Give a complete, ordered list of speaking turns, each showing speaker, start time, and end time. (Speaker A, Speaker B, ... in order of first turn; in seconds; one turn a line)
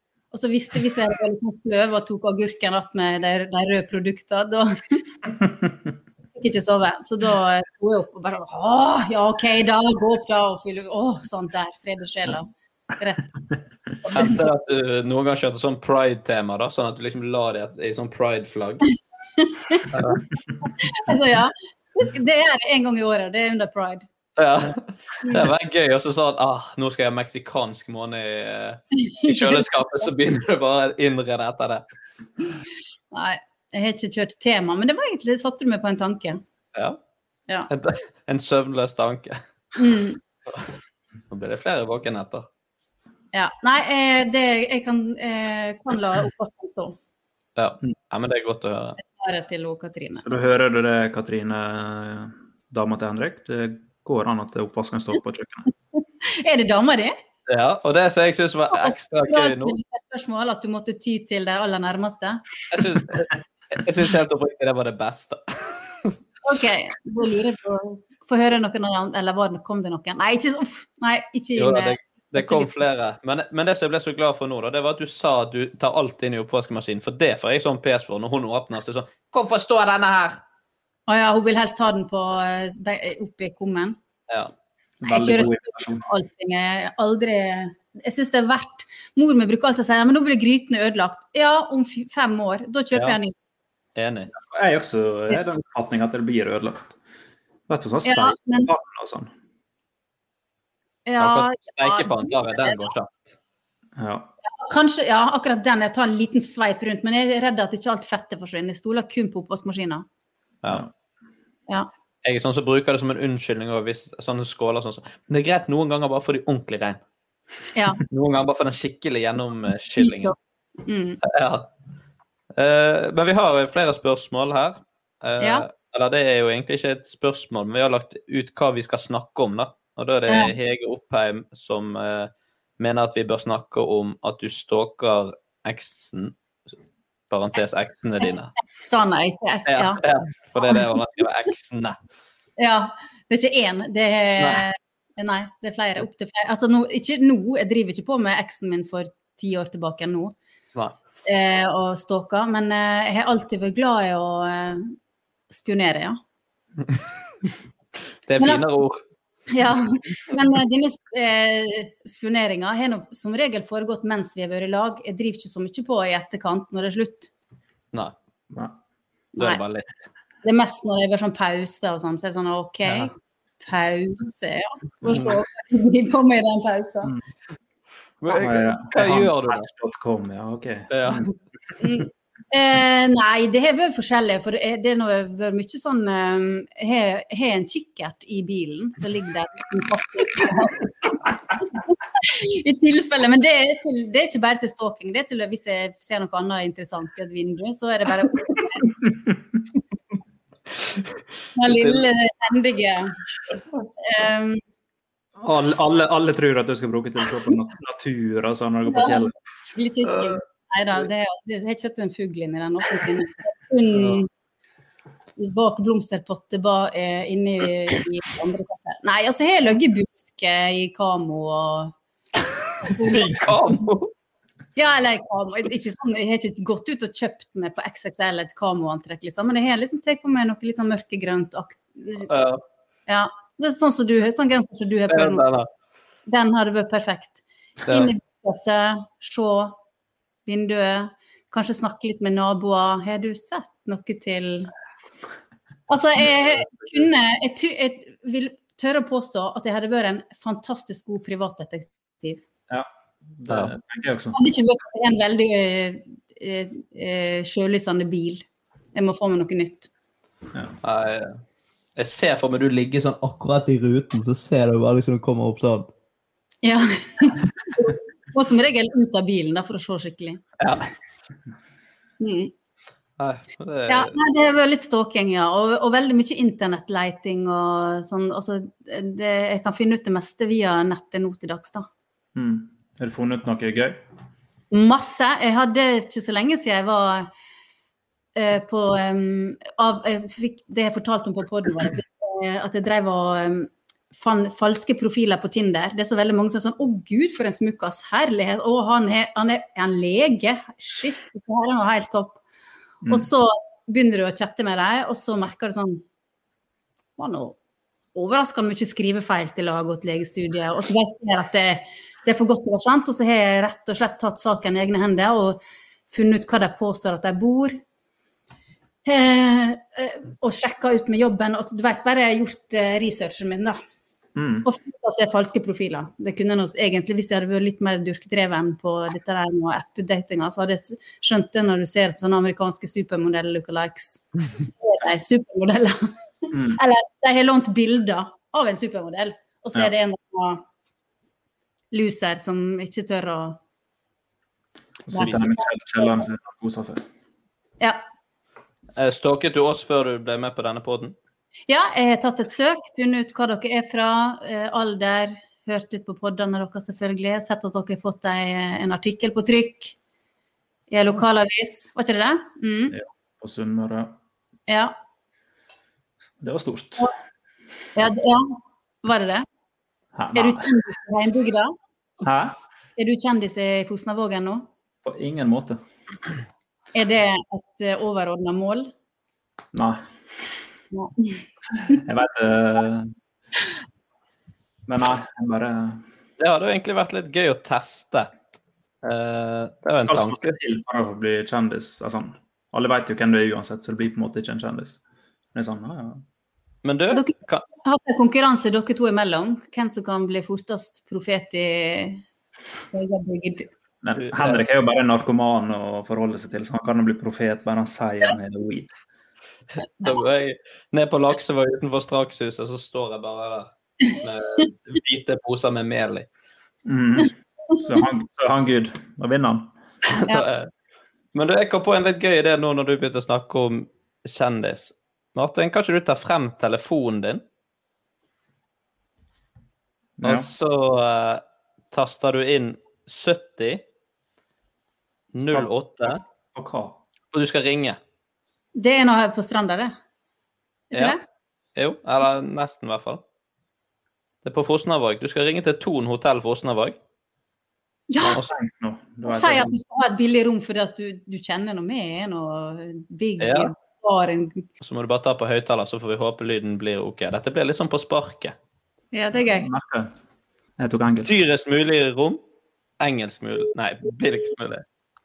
Speaker A: 0.3-5.0
Speaker A: 6.4-13.3
Speaker A: 14.1-14.4
Speaker B: 14.1-18.9
Speaker A: 19.4-19.9
Speaker B: 19.9-20.2
Speaker A: 20.6-24.0
Speaker B: 24.4-31.8
Speaker A: 29.0-29.7
Speaker A: 33.1-36.4
Speaker B: 37.7-39.4
Speaker A: 39.8-40.2
Speaker B: 41.3-42.5
Speaker A: 43.3-47.0
Speaker B: 47.6-49.0
Speaker A: 49.0-50.2
Speaker C: 50.2-55.7
Speaker A: 56.2-57.2
Speaker B: 57.5-59.8
Speaker A: 58.7-62.4
Speaker B: 62.7-66.1
Speaker A: 66.5-72.7
Speaker B: 71.6-80.4
Speaker A: 81.1-84.0
Speaker C: 85.0-86.0
Speaker A: 85.1-93.3
Speaker B: 94.0-94.3
Speaker C: 94.4-96.9
Speaker C: 97.7-99.3
Speaker A: 98.0-98.7
Speaker A: 101.1-102.9
Speaker B: 101.2-103.2
Speaker C: 104.0-104.3
Speaker A: 104.4-110.0
Speaker B: 112.2-117.0
Speaker A: 117.8-118.0
Speaker B: 118.1-120.3
Speaker A: 120.0-121.2
Speaker B: 121.2-121.7
Speaker B: 122.6-136.3
Speaker A: 125.4-125.7
Speaker A: 130.3-130.5
Speaker B: 137.3-138.5
Speaker A: 138.3-140.0
Speaker B: 139.7-142.0
Speaker A: 142.6-150.3
Speaker A: 151.3-155.0
Speaker A: 155.5-156.2
Speaker B: 158.3-159.0
Speaker A: 158.4-158.7
Speaker A: 159.5-167.3
Speaker B: 169.4-169.9
Speaker A: 170.4-177.1
Speaker B: 178.2-179.7
Speaker C: 178.3-181.3
Speaker B: 180.9-181.3
Speaker A: 181.8-190.9
Speaker A: 191.8-198.9
Speaker A: 201.6-203.2
Speaker B: 201.7-202.0
Speaker A: 204.0-204.6
Speaker C: 205.4-209.3
Speaker A: 208.9-214.3
Speaker A: 215.4-221.9
Speaker A: 222.8-223.5
Speaker B: 223.0-224.1
Speaker A: 224.8-232.3
Speaker B: 232.3-232.6
Speaker A: 233.1-235.5
Speaker B: 235.1-235.7
Speaker A: 236.3-239.8
Speaker B: 237.9-238.1
Speaker A: 240.5-244.7
Speaker A: 245.9-252.4
Speaker C: 252.7-254.4
Speaker A: 254.3-258.4
Speaker A: 258.9-259.9
Speaker B: 260.8-261.4
Speaker B: 262.0-265.9
Speaker A: 266.6-270.4
Speaker B: 270.6-270.9
Speaker A: 272.2-272.5
Speaker B: 273.2-274.1
Speaker A: 273.9-281.9
Speaker C: 282.4-284.0
Speaker A: 284.7-287.3
Speaker A: 288.4-302.4
Speaker A: 303.1-306.0
Speaker A: 307.2-307.6
Speaker A: 308.1-317.8
Speaker A: 319.1-323.8
Speaker C: 324.4-324.7
Speaker A: 324.6-340.6
Speaker C: 336.5-336.8
Speaker A: 341.9-343.6
Speaker C: 345.1-347.0
Speaker A: 345.1-346.2
Speaker B: 349.0-351.1
Speaker A: 351.7-359.9
Speaker A: 360.9-362.9
Speaker C: 362.9-364.1
Speaker A: 364.7-364.9
Speaker C: 366.4-367.1
Speaker A: 367.9-369.5
Speaker C: 370.2-370.7
Speaker A: 370.4-371.8
Speaker C: 372.2-372.6
Speaker A: 373.0-374.7
Speaker C: 375.1-375.8
Speaker A: 376.9-378.9
Speaker C: 379.7-380.0
Speaker A: 380.9-382.0
Speaker C: 381.9-383.1
Speaker C: 384.9-386.0
Speaker B: 386.4-388.3
Speaker B: 389.0-390.5
Speaker C: 390.0-395.0
Speaker C: 395.5-396.2
Speaker B: 396.8-397.6
Speaker A: 397.1-402.2
Speaker A: 402.9-403.7
Speaker C: 404.0-408.9
Speaker B: 404.2-404.6
Speaker B: 410.0-416.3
Speaker C: 416.9-419.7
Speaker B: 420.1-420.7
Speaker B: 421.3-427.4
Speaker C: 430.2-430.5
Speaker B: 430.2-433.8
Speaker B: 435.3-436.2
Speaker C: 435.5-437.0
Speaker B: 437.3-438.0
Speaker A: 438.8-439.9
Speaker A: 440.9-441.2
Speaker B: 441.8-443.2
Speaker B: 444.4-447.0
Speaker A: 448.1-448.5
Speaker C: 448.3-449.7
Speaker A: 449.3-454.6
Speaker B: 453.4-453.7
Speaker B: 454.8-458.6
Speaker A: 459.1-459.7
Speaker C: 459.4-460.1
Speaker C: 460.8-461.4
Speaker B: 461.3-462.4
Speaker B: 463.0-464.8